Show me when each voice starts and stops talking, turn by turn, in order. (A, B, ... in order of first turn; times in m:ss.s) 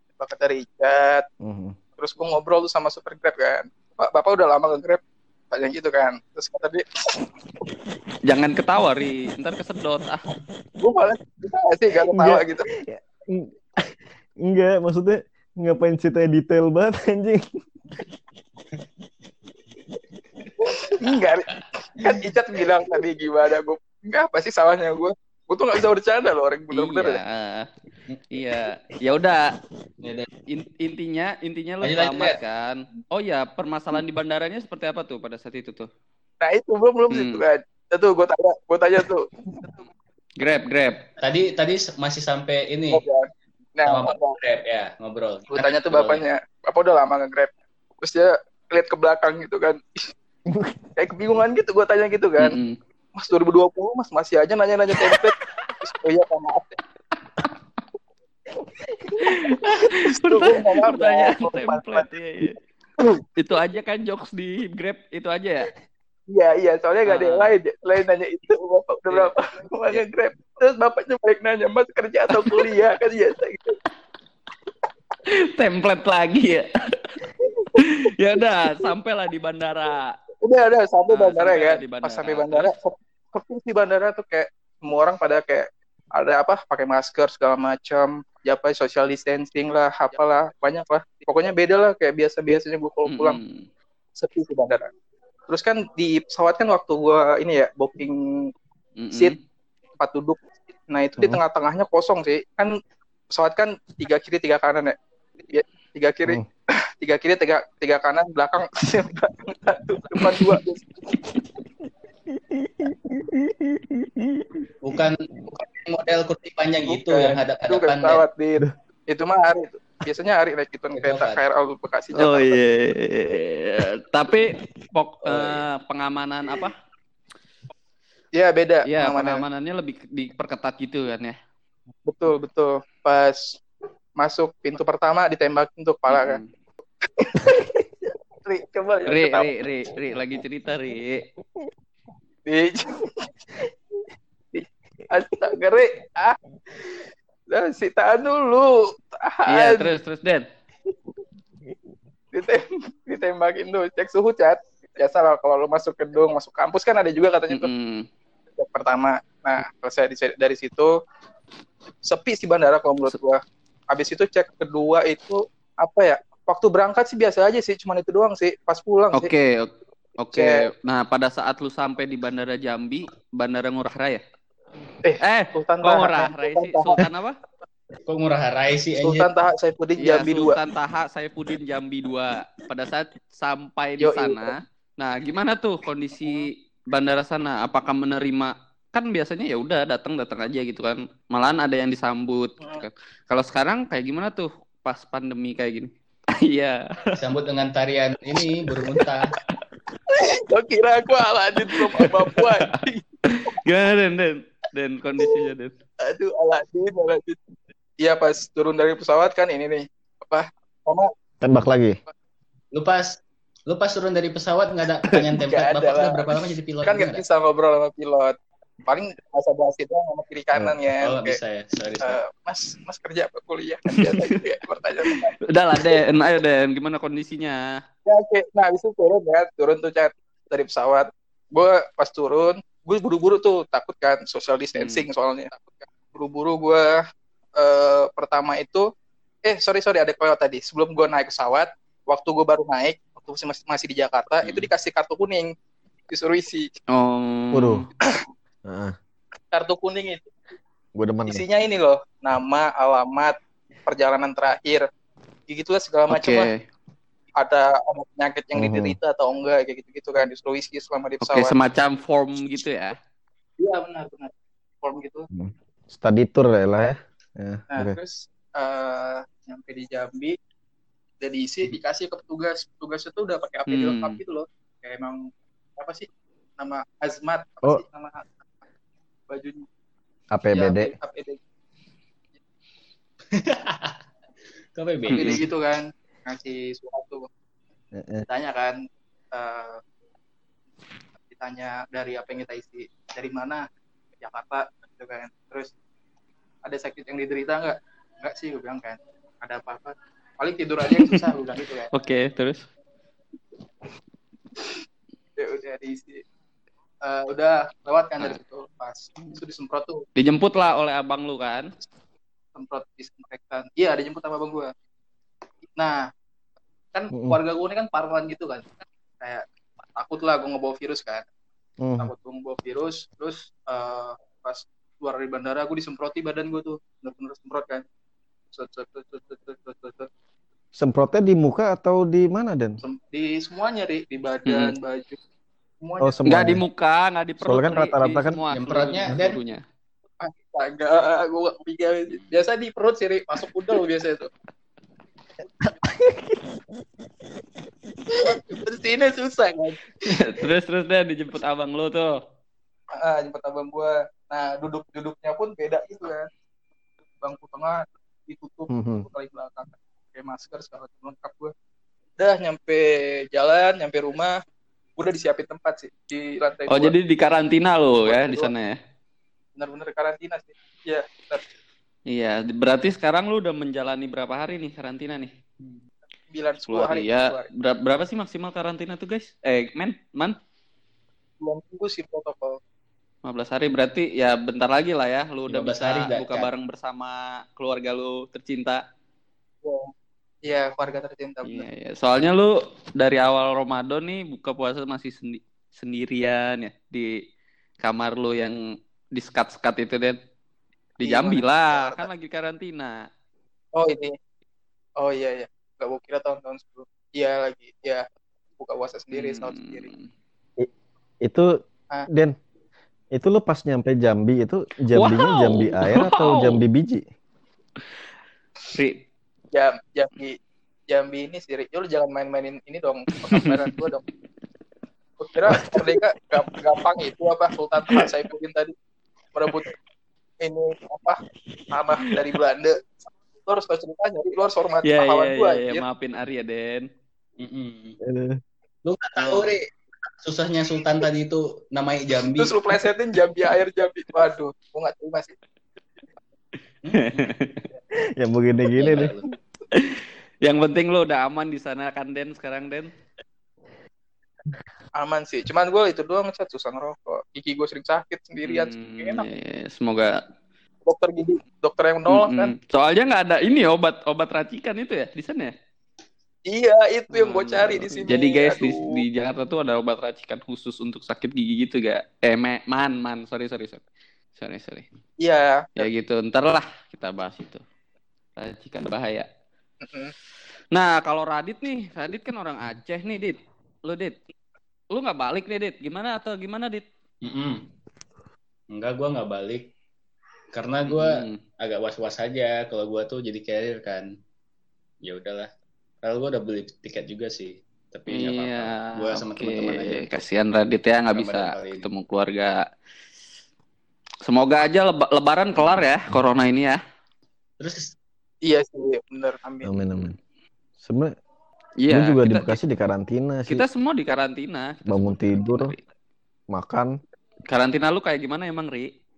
0:00.2-0:01.2 A
0:01.4-0:01.8 B
0:02.0-0:07.2 A
0:08.2-0:10.2 C
0:10.8-0:12.6 A
0:12.1-0:17.5 B
0:20.6-0:27.2 A
0:26.7-0:27.7 C
0:28.3-0:29.4 C
0:30.0-0:30.3 D
0:30.5-0:35.9 C
0:31.8-0:32.4 D
0:36.4-0:39.8 A
0:37.1-0:37.4 C
0:40.4-0:41.0 C
0:41.2-0:43.0 D
0:42.9-0:44.4 A
0:43.8-0:46.2 D
0:45.5-0:50.0 A
0:50.5-0:50.8 B
0:51.0-0:52.6 A
0:52.4-0:52.8 C
0:53.2-0:56.8 A
0:58.7-0:59.9 B
0:59.2-1:02.6 C
1:00.2-1:02.0 A
1:03.4-1:05.7 C
1:06.3-1:13.8 A
1:07.0-1:07.5 C
1:12.3-1:12.7 C
1:15.3-1:17.0 C
1:17.8-1:20.1 C
1:20.4-1:33.4 A
1:21.1-1:22.7 C
1:33.1-1:33.6 C
1:34.2-1:34.9 A
1:35.5-1:38.2 A
1:39.0-1:39.3 C
1:40.0-1:40.4 A
1:40.9-1:42.7 A
1:43.4-1:44.9 A
1:45.5-1:46.4 A
1:47.0-1:50.9 A
1:52.8-1:53.4 B
1:54.0-1:54.4 B
1:54.8-1:58.2 D
1:56.9-2:02.6 A
2:00.9-2:01.4 D
2:02.2-2:06.7 C
2:08.3-2:09.4 A
2:08.8-2:11.4 C
2:12.1-2:13.6 A
2:14.2-2:16.4 A
2:16.1-2:16.5 C
2:17.1-2:17.4 A
2:18.4-2:19.5 A
2:19.1-2:21.2 C
2:20.1-2:20.4 B
2:22.4-2:23.1 A
2:24.5-2:26.4 A
2:27.5-2:29.9 A
2:29.5-2:30.4 C
2:32.3-2:37.7 A
2:37.5-2:38.0 C
2:38.6-2:40.9 A
2:42.0-2:43.4 A
2:43.9-2:49.3 A
2:49.1-2:54.2 C
2:55.0-2:57.0 A
2:55.2-2:57.4 C
2:58.0-2:59.3 D
2:59.0-3:00.6 A
3:00.0-3:16.8 C
3:04.0-3:04.6 A
3:17.2-3:19.3 D
3:20.1-3:23.0 A
3:21.8-3:22.8 C
3:23.3-3:25.7 C
3:26.0-3:27.4 A
3:28.0-3:31.1 A
3:31.4-3:32.0 B
3:32.7-3:37.2 D
3:35.4-3:36.3 A
3:36.8-3:41.4 A
3:41.0-3:42.2 D
3:42.0-3:45.3 A
3:43.9-3:44.2 C
3:45.5-3:47.6 C
3:48.0-3:57.0 A
3:54.7-3:55.1 C
3:57.6-3:58.8 A
3:59.4-4:05.5 A
4:06.1-4:06.7 A
4:06.9-4:07.9 C
4:07.5-4:07.9 B
4:08.6-4:08.9 B
4:09.5-4:10.3 A
4:10.9-4:11.4 B
4:11.3-4:14.8 A
4:15.5-4:16.5 A
4:16.1-4:16.5 C
4:17.4-4:21.5 A
4:18.5-4:19.0 B
4:21.2-4:23.0 C
4:23.6-4:25.2 A
4:25.3-4:28.0 B
4:27.7-4:30.3 A
4:31.2-4:35.2 A
4:33.7-4:34.2 C
4:35.8-4:38.4 A
4:39.3-4:39.6 A
4:40.3-4:40.9 B
4:40.5-4:41.4 A
4:43.3-4:44.0 D
4:44.7-4:45.4 D
4:45.0-4:47.2 A
4:45.1-4:45.4 C
4:47.9-4:48.2 B
4:48.3-4:48.8 A
4:49.3-4:49.8 A
4:51.3-4:53.6 A
4:54.2-4:55.7 A
4:56.6-5:01.9 A
5:01.9-5:02.6 C
5:05.4-5:06.2 A
5:07.0-5:10.0 A
5:10.2-5:11.7 C
5:12.5-5:14.7 A
5:15.8-5:16.1 A
5:16.9-5:18.6 A
5:17.1-5:17.4 B
5:19.9-5:21.2 A
5:21.8-5:22.1 B
5:22.0-5:27.8 A
5:28.5-5:30.1 A
5:30.7-5:32.8 B
5:32.8-5:35.2 A
5:34.4-5:34.7 C
5:35.8-5:36.4 A
5:36.0-5:36.6 B
5:36.3-5:39.6 C
5:37.4-5:38.4 B
5:38.5-5:39.4 D
5:40.2-5:44.3 A
5:42.1-5:42.4 D
5:46.0-5:46.3 B
5:48.1-5:49.8 A
5:50.0-5:52.2 C
5:52.9-5:56.3 A
5:57.2-6:01.5 A
5:58.7-5:59.1 B
6:02.2-6:04.3 A
6:05.0-6:06.9 A
6:06.7-6:08.8 C
6:08.0-6:08.5 A
6:09.6-6:11.4 A
6:12.1-6:15.3 C
6:16.3-6:17.5 A
6:16.7-6:20.3 C
6:21.4-6:22.6 A
6:23.2-6:28.8 C
6:25.5-6:26.5 D
6:29.6-6:29.9 A
6:30.4-6:31.7 A
6:31.4-6:37.1 C
6:37.8-6:38.6 C
6:39.1-6:40.2 C
6:41.0-6:43.0 C
6:41.0-6:42.1 A
6:43.7-6:44.1 A
6:45.0-6:48.0 A
6:48.6-6:49.9 A
6:49.1-6:50.1 C
6:51.2-6:51.5 B
6:53.1-6:57.0 B
6:54.9-6:56.6 C
6:58.7-6:59.0 C
6:59.5-7:00.4 A
7:00.9-7:04.0 A
7:05.2-7:08.7 A
7:09.3-7:09.7 A
7:10.4-7:11.2 A
7:11.7-7:15.8 A
7:14.8-7:16.9 C
7:17.4-7:18.0 D
7:18.0-7:18.4 B
7:18.8-7:19.6 D
7:20.2-7:22.7 D
7:22.3-7:25.3 A
7:26.8-7:27.3 D
7:27.1-7:27.6 C
7:28.2-7:29.1 B
7:28.7-7:29.3 D
7:29.7-7:32.9 C
7:35.0-7:39.3 A
7:38.4-7:40.1 C
7:40.8-7:42.5 A
7:42.1-7:45.5 C
7:46.5-7:48.8 A
7:47.1-7:53.8 C
7:54.3-7:54.9 C
7:55.2-7:55.9 A
7:55.8-7:57.6 C
7:58.4-7:59.3 C
7:59.8-8:00.1 A
8:00.7-8:04.2 C
8:04.9-8:06.8 C
8:07.2-8:07.6 D
8:08.7-8:09.7 D
8:10.5-8:14.1 D
8:10.9-8:11.4 C
8:15.0-8:15.5 D
8:16.0-8:20.2 D
8:18.1-8:22.6 C
8:21.1-8:21.9 D
8:24.2-8:26.8 C
8:27.6-8:27.9 D
8:28.4-8:29.7 A
8:29.6-8:30.2 B
8:30.8-8:31.1 B
8:31.8-8:32.6 C
8:31.9-8:33.6 B
8:33.5-8:35.8 C
8:34.9-8:35.7 B
8:36.5-8:37.0 B
8:37.5-8:38.9 C